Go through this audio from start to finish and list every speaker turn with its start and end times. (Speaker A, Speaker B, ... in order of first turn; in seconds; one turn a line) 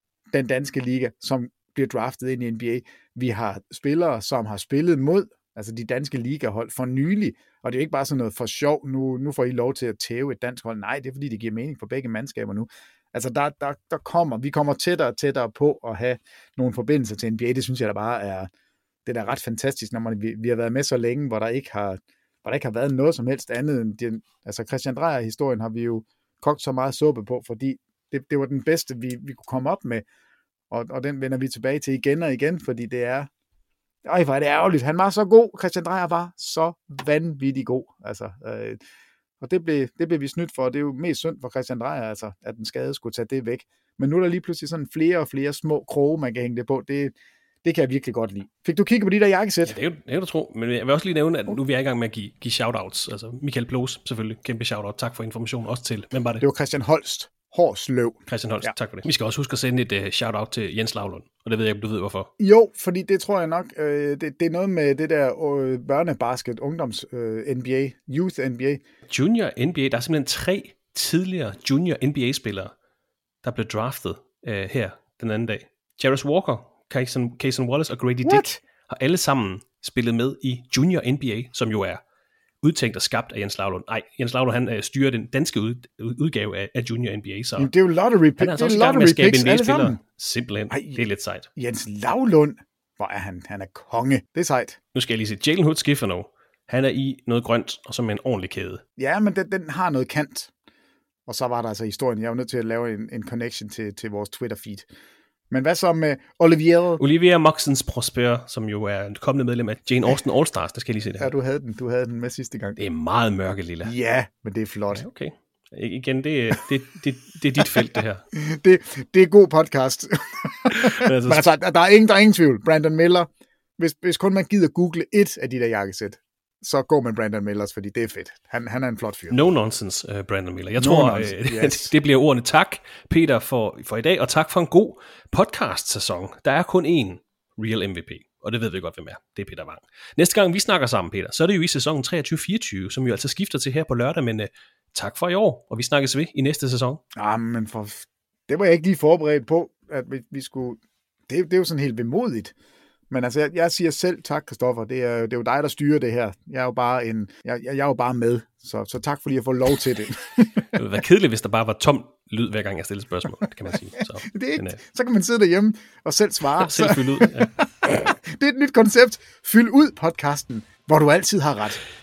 Speaker A: 0.3-18.5
Speaker A: 19.1-30.0
Speaker A: 30.7-33.3
Speaker A: 34.0-38.8
Speaker A: 39.4-49.8
Speaker B: 49.7-56.5
Speaker A: 56.4-58.7
Speaker B: 58.3-62.3
Speaker A: 62.4-68.8
Speaker B: 69.1-72.7
Speaker B: 73.4-82.0
Speaker A: 78.2-78.6
Speaker B: 82.6-87.7
Speaker A: 87.6-90.0
Speaker B: 88.4-91.5
Speaker A: 90.7-94.8
Speaker B: 94.9-98.8
Speaker A: 99.0-100.5
Speaker A: 101.3-104.9
Speaker A: 105.5-107.0
Speaker B: 107.0-111.3
Speaker A: 111.2-112.8
Speaker B: 112.8-113.9
Speaker A: 113.8-115.1
Speaker B: 114.9-118.2
Speaker A: 118.3-129.4
Speaker B: 120.7-121.4
Speaker B: 129.3-147.0
Speaker A: 130.8-131.9
Speaker A: 147.1-152.5
Speaker A: 153.1-160.7
Speaker B: 160.8-164.8
Speaker A: 164.2-171.8
Speaker B: 166.6-167.5